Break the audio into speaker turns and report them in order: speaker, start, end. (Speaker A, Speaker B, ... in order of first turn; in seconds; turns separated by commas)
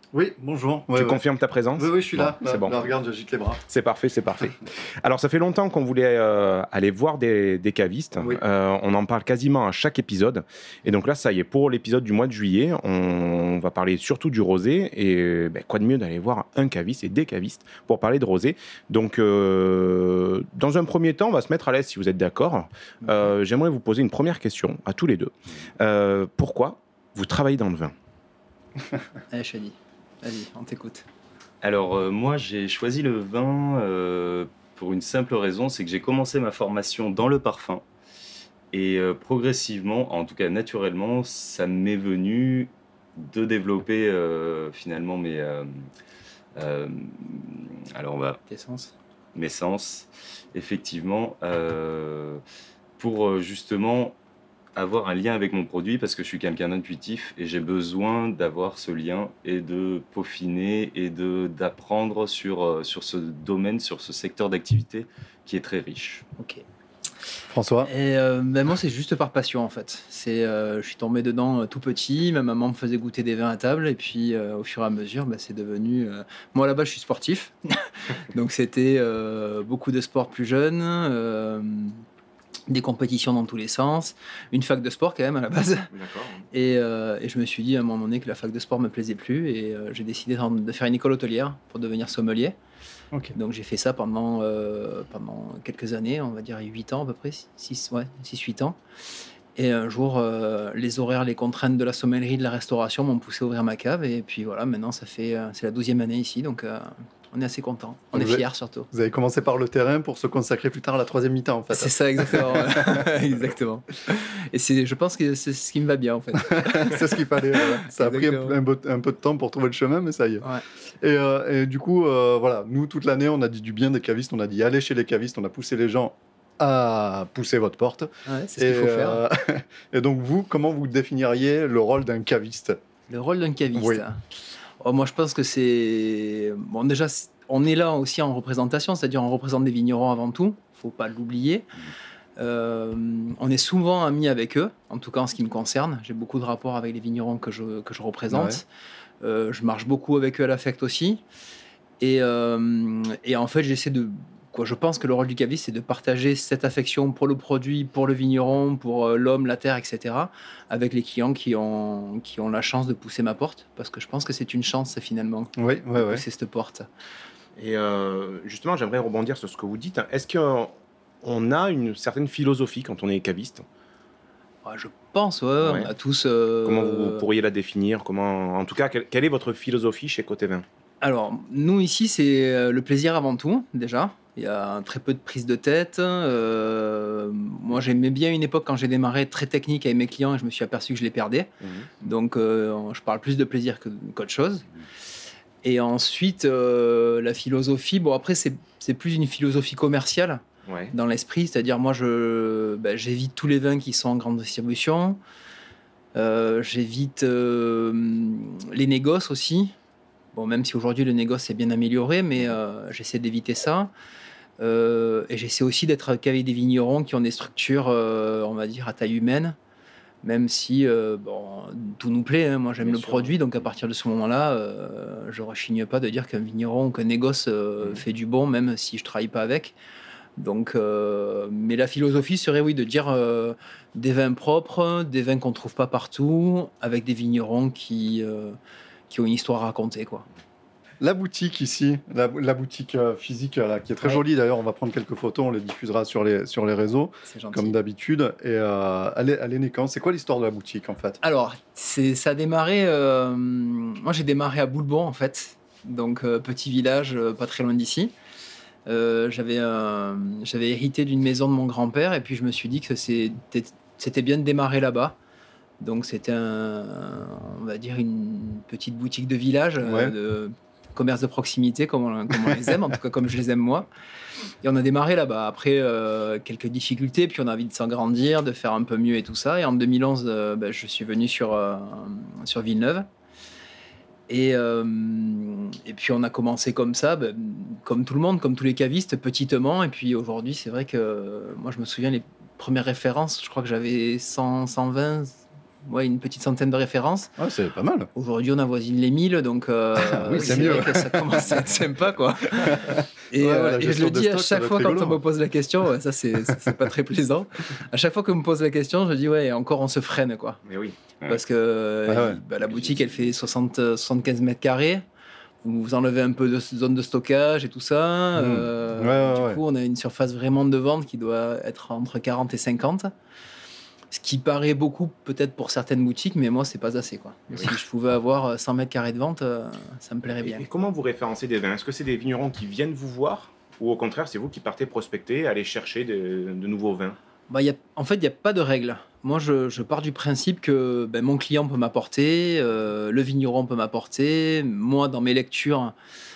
Speaker A: 0.1-1.2, Speaker B: 0.9-2.9, Speaker A: 1.8-3.6, Speaker B: 3.7-27.9, Speaker C: 29.3-31.1, Speaker D: 31.6-37.9, Speaker D: 38.7-45.7, Speaker D: 46.6-48.4, Speaker C: 48.5-48.9, Speaker D: 49.4-52.4, Speaker D: 53.0-54.2, Speaker D: 54.8-66.2, Speaker C: 66.4-66.6, Speaker A: 67.5-67.9, Speaker C: 67.9-77.5, Speaker C: 78.3-82.0, Speaker C: 82.7-85.9, Speaker B: 85.9-86.4, Speaker C: 86.5-92.6, Speaker C: 93.3-98.8, Speaker C: 99.6-108.9, Speaker A: 108.1-113.1, Speaker C: 111.7-118.6, Speaker A: 116.4-120.4, Speaker A: 121.0-132.8, Speaker C: 128.3-129.2, Speaker C: 133.1-134.2, Speaker A: 133.8-134.0, Speaker C: 134.8-141.7, Speaker C: 142.4-148.7, Speaker A: 148.3-148.6, Speaker C: 149.2-151.2, Speaker C: 152.0-166.9, Speaker A: 165.6-166.2, Speaker B: 167.6-173.7, Speaker C: 174.7-177.2, Speaker B: 175.6-175.9, Speaker B: 176.6-180.7, Speaker C: 181.0-191.5, Speaker B: 191.6-191.9, Speaker C: 192.0-194.7, Speaker C: 195.6-205.2, Speaker B: 200.7-200.9, Speaker C: 206.2-209.7, Speaker C: 210.3-213.9, Speaker C: 214.6-219.6, Speaker C: 220.2-229.8, Speaker B: 222.8-223.6, Speaker C: 230.4-238.6, Speaker C: 239.1-240.3, Speaker A: 241.0-251.2, Speaker C: 247.3-247.8, Speaker C: 251.2-258.1, Speaker C: 258.9-265.2, Speaker C: 265.8-273.9, Speaker A: 269.8-270.1, Speaker C: 274.6-283.1, Speaker C: 284.3-297.3, Speaker A: 297.4-298.1, Speaker C: 298.1-310.6, Speaker A: 300.0-301.4, Speaker B: 300.4-300.8, Speaker A: 302.6-305.2, Speaker B: 310.7-311.0, Speaker C: 311.3-315.0, Speaker A: 312.1-312.4, Speaker D: 312.7-313.4, Speaker C: 315.6-323.1, Speaker A: 318.4-319.6, Speaker C: 324.1-330.7, Speaker B: 330.4-337.2, Speaker C: 337.5-345.9